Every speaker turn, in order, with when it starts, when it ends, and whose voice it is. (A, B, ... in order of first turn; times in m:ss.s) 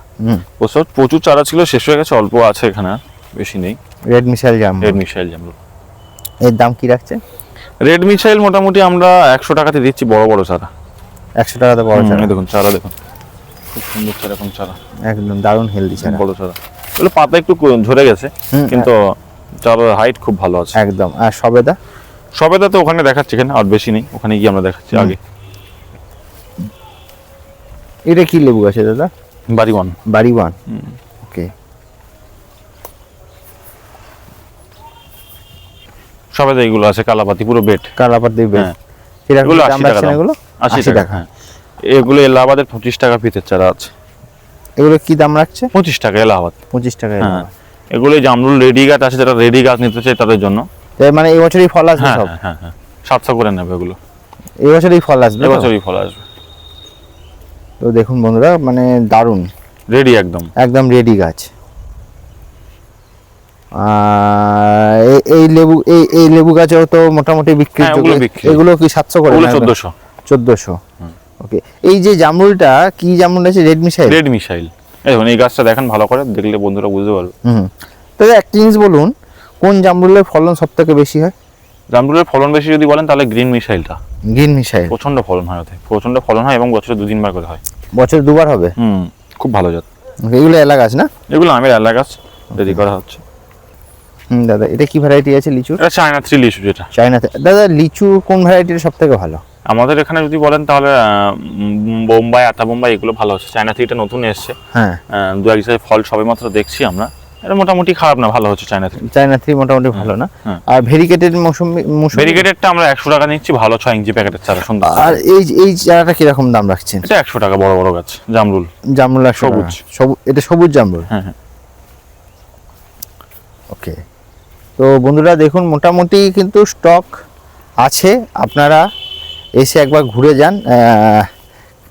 0:00.6-0:03.8 A
0:04.1-0:05.0 B
0:04.8-0:05.6 A
0:06.4-0:07.2 B
0:07.8-0:10.7 A
0:11.4-0:12.3 B
0:11.9-0:13.0 A
0:13.7-0:14.8 A
0:15.1-0:16.2 B
0:16.0-0:19.0 A
0:18.5-0:18.9 B
0:19.6-0:20.8 A
0:20.8-0:21.8 B
0:22.4-0:25.2 A
0:28.1-0:29.1 B
0:29.5-0:30.0 A
0:30.1-0:30.5 B
0:30.7-0:31.0 A
0:31.2-0:31.5 B
0:36.3-0:37.9 A
0:38.0-0:38.7 B
0:39.3-0:41.2 B
0:39.4-0:41.3 A
0:41.8-0:43.9 A
0:44.8-0:45.7 B
0:45.7-0:46.5 A
0:46.7-0:47.5 B
0:47.2-0:50.6 A
0:51.0-0:52.3 B
0:52.0-0:54.0 A
0:54.6-0:55.7 B
0:55.4-0:56.2 A
0:57.8-0:59.5 B
0:59.9-1:00.5 A
1:00.6-1:01.5 B
1:03.8-1:09.7 B
1:07.8-1:08.6 A
1:09.3-1:09.9 A
1:10.3-1:10.8 B
1:11.4-1:14.2 B
1:14.1-1:17.3 A
1:17.4-1:21.3 B
1:21.9-1:24.0 A
1:24.3-1:24.9 B
1:24.9-1:27.6 A
1:27.9-1:28.7 B
1:28.8-1:29.8 A
1:30.3-1:31.1 B
1:31.3-1:33.2 A
1:34.3-1:35.8 B
1:35.8-1:36.9 A
1:37.0-1:39.4 B
1:39.7-1:44.6 A
1:44.7-1:45.0 B
1:45.1-1:49.0 A
1:49.1-1:52.4 B
1:49.9-1:50.6 A
1:52.1-1:55.2 A
1:54.8-1:57.0 B
1:57.0-1:58.7 A
1:59.0-2:01.1 B
1:59.4-1:59.8 A
2:01.1-2:01.3 A
2:03.7-2:04.0 B
2:04.8-2:07.1 B
2:07.8-2:08.8 B
2:09.6-2:11.3 B